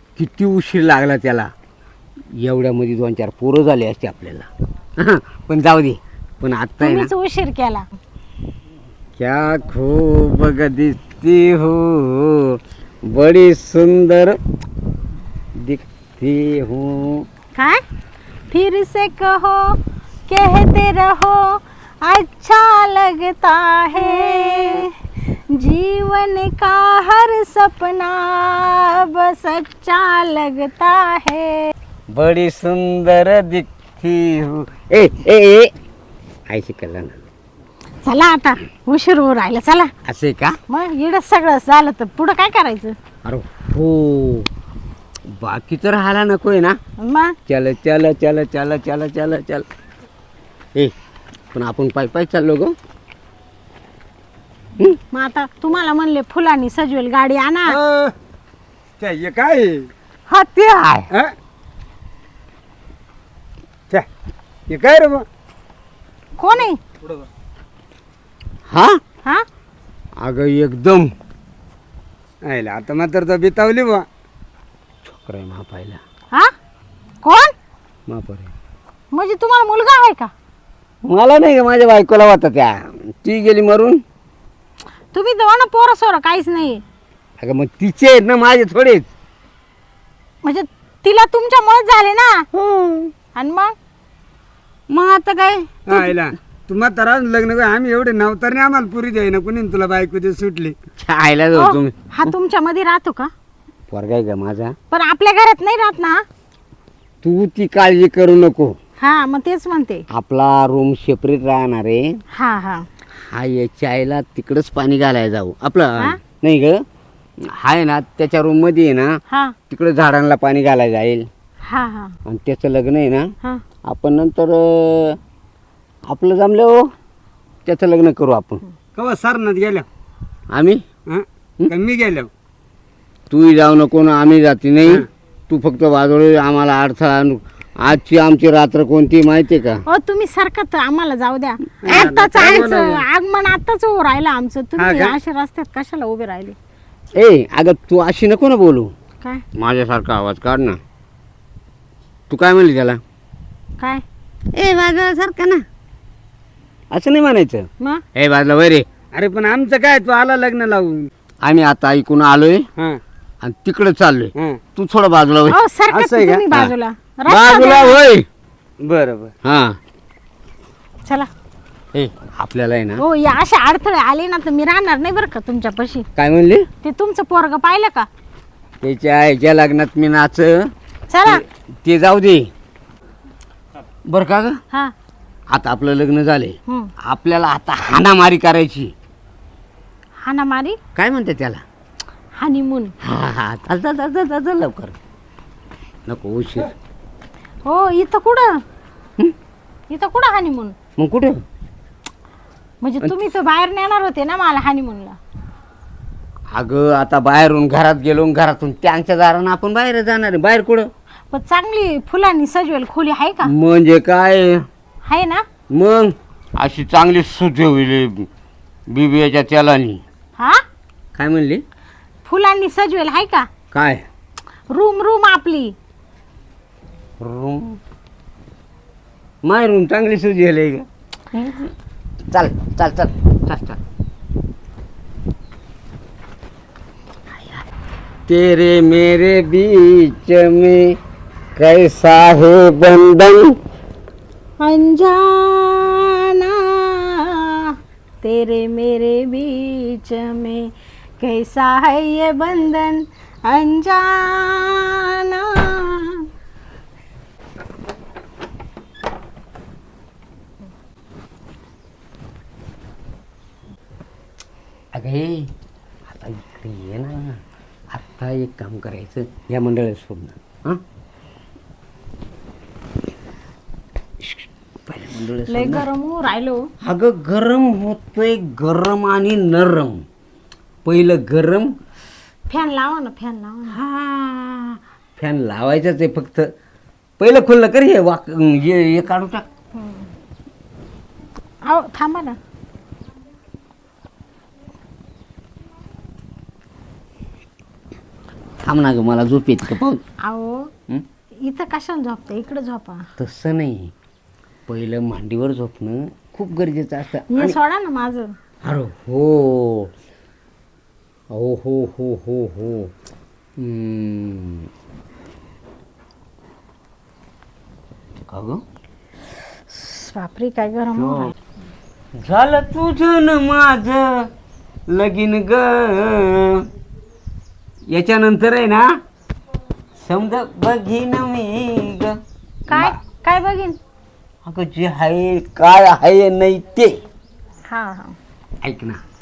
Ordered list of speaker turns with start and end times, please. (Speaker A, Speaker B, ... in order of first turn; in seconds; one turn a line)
Speaker A: 0.2-1.5
Speaker A: 2.4-7.1
Speaker B: 6.8-7.8
Speaker A: 9.2-14.4
Speaker A: 15.6-17.3
Speaker B: 17.6-17.8
Speaker B: 18.5-24.9
Speaker A: 24.0-24.8
Speaker B: 25.5-31.7
Speaker A: 32.1-35.7
Speaker A: 36.5-37.2
Speaker B: 38.0-39.9
Speaker A: 40.0-40.6
Speaker B: 40.7-43.0
Speaker A: 43.2-44.5
Speaker A: 45.3-46.8
Speaker B: 47.0-47.4
Speaker A: 47.5-49.7
Speaker A: 51.5-52.7
Speaker B: 55.1-57.8
Speaker C: 57.7-58.1
Speaker C: 59.0-59.9
Speaker B: 60.3-60.6
Speaker A: 60.6-61.1
Speaker C: 64.7-65.3
Speaker B: 66.4-66.8
Speaker A: 68.7-69.0
Speaker A: 70.2-71.1
Speaker C: 72.5-74.1
Speaker A: 75.0-76.0
Speaker B: 77.2-77.5
Speaker A: 78.1-78.5
Speaker B: 79.1-80.3
Speaker A: 81.0-84.0
Speaker B: 85.1-86.8
Speaker A: 87.4-89.1
Speaker B: 90.4-92.5
Speaker A: 92.5-93.1
Speaker B: 93.3-93.7
Speaker A: 94.9-96.2
Speaker C: 95.9-100.8
Speaker A: 101.0-102.3
Speaker B: 101.5-103.3
Speaker A: 103.9-104.8
Speaker B: 104.9-106.2
Speaker A: 107.2-108.8
Speaker B: 109.0-110.0
Speaker A: 110.1-112.2
Speaker B: 112.3-112.8
Speaker A: 113.2-116.8
Speaker A: 117.5-119.1
Speaker B: 119.3-119.5
Speaker A: 119.7-121.3
Speaker B: 121.7-122.1
Speaker A: 122.3-123.3
Speaker A: 123.9-125.2
Speaker A: 126.1-126.9
Speaker A: 127.7-128.6
Speaker C: 129.0-129.9
Speaker A: 130.5-130.8
Speaker C: 131.1-132.3
Speaker A: 133.3-139.8
Speaker B: 139.9-146.6
Speaker C: 141.8-143.0
Speaker A: 141.9-142.6
Speaker C: 144.8-145.2
Speaker A: 147.2-148.9
Speaker A: 149.6-150.8
Speaker A: 152.3-153.0
Speaker A: 154.5-155.6
Speaker A: 156.9-158.9
Speaker C: 159.1-161.1
Speaker A: 161.4-162.7
Speaker A: 163.4-165.6
Speaker C: 164.4-164.6
Speaker B: 165.5-168.0
Speaker C: 165.9-166.4
Speaker A: 167.3-168.3
Speaker C: 168.8-169.3
Speaker A: 169.4-169.8
Speaker A: 171.9-173.0
Speaker B: 173.0-176.1
Speaker A: 176.2-176.7
Speaker B: 176.8-178.1
Speaker A: 178.8-180.7
Speaker B: 181.1-181.4
Speaker A: 181.3-182.5
Speaker A: 184.1-184.6
Speaker A: 185.5-188.9
Speaker B: 190.2-190.8
Speaker A: 190.9-191.6
Speaker B: 192.4-192.9
Speaker A: 193.0-195.0
Speaker A: 196.1-196.8
Speaker B: 197.7-198.5
Speaker B: 199.9-200.8
Speaker A: 201.0-201.4
Speaker B: 202.8-205.2
Speaker A: 206.5-210.9
Speaker B: 211.3-213.5
Speaker A: 213.5-214.7
Speaker B: 215.1-215.4
Speaker A: 215.7-218.3
Speaker A: 218.9-220.0
Speaker A: 221.2-221.6
Speaker B: 222.2-223.5
Speaker A: 223.7-224.1
Speaker B: 224.7-225.8
Speaker A: 227.2-227.8
Speaker A: 229.4-231.7
Speaker A: 232.3-233.8
Speaker A: 237.3-237.6
Speaker A: 238.3-241.0
Speaker A: 241.6-243.6
Speaker B: 244.6-256.3
Speaker A: 264.9-265.5
Speaker A: 266.1-270.8
Speaker A: 274.2-275.9
Speaker B: 275.5-276.7
Speaker A: 276.8-280.0
Speaker A: 280.9-281.7
Speaker B: 282.5-283.8
Speaker A: 283.7-286.5
Speaker A: 287.2-289.4
Speaker B: 289.8-290.1
Speaker B: 291.7-292.4
Speaker A: 298.6-300.0
Speaker B: 300.2-300.7
Speaker B: 301.4-303.1
Speaker A: 303.2-303.9
Speaker A: 304.7-307.6
Speaker B: 307.3-308.4
Speaker A: 308.6-309.9
Speaker A: 311.3-312.9
Speaker A: 313.6-314.7
Speaker A: 318.3-318.6
Speaker B: 319.7-321.3
Speaker A: 321.0-321.3
Speaker A: 322.2-324.3
Speaker A: 324.9-326.7
Speaker A: 327.9-328.9
Speaker A: 330.0-332.2
Speaker B: 332.7-333.8
Speaker A: 332.7-332.9
Speaker A: 334.4-337.0
Speaker B: 337.7-338.2
Speaker A: 338.6-339.0